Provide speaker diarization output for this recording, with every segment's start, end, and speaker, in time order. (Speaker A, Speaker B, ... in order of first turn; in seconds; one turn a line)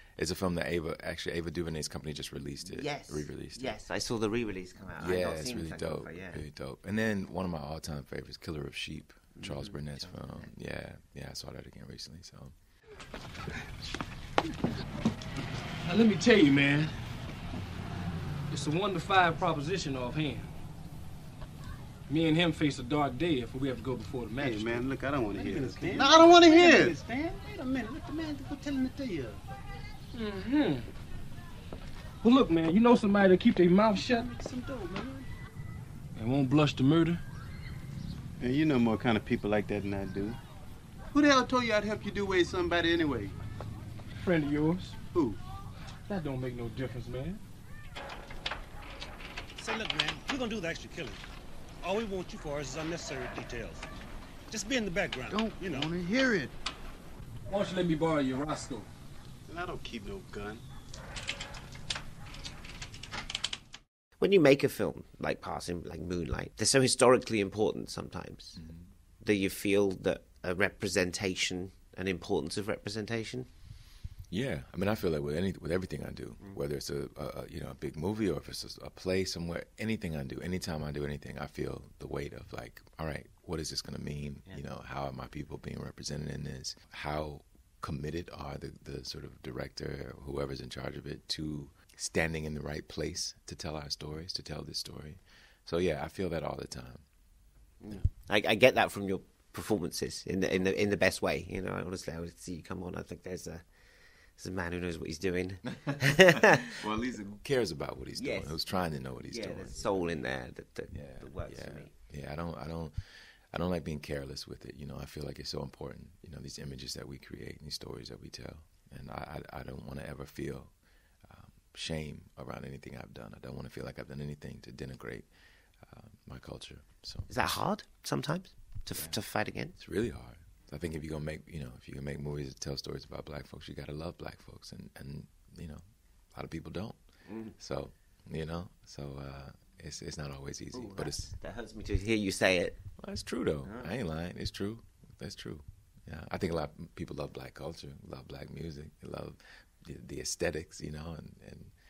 Speaker A: 0.2-3.8
Speaker B: 2.6-6.4
Speaker A: 5.0-12.5
Speaker B: 9.4-10.5
Speaker C: 15.9-16.9
Speaker C: 18.5-20.5
Speaker C: 22.1-24.9
Speaker D: 24.4-29.4
Speaker E: 25.4-26.9
Speaker C: 30.1-30.9
Speaker C: 32.2-34.3
Speaker D: 34.1-35.2
Speaker C: 36.2-37.2
Speaker D: 38.4-40.4
Speaker D: 41.1-43.3
Speaker C: 44.2-45.0
Speaker D: 45.1-45.4
Speaker C: 46.1-47.4
Speaker E: 49.6-51.2
Speaker E: 51.8-53.9
Speaker E: 54.5-55.9
Speaker D: 55.3-56.5
Speaker C: 57.5-58.9
Speaker D: 59.5-60.6
Speaker B: 64.2-68.6
Speaker A: 68.6-68.8
Speaker B: 69.2-73.5
Speaker A: 74.3-97.0
Speaker B: 97.8-103.6
Speaker B: 104.4-106.7
Speaker A: 106.6-110.1
Speaker B: 108.2-108.7
Speaker B: 109.3-111.9
Speaker A: 110.9-113.0
Speaker A: 113.5-120.7
Speaker A: 121.3-125.3
Speaker A: 125.9-127.5
Speaker B: 127.3-129.7
Speaker A: 129.8-135.8
Speaker A: 136.3-137.0
Speaker B: 137.3-137.5
Speaker A: 137.6-141.3
Speaker B: 140.7-142.8
Speaker A: 143.0-151.7
Speaker B: 143.7-143.9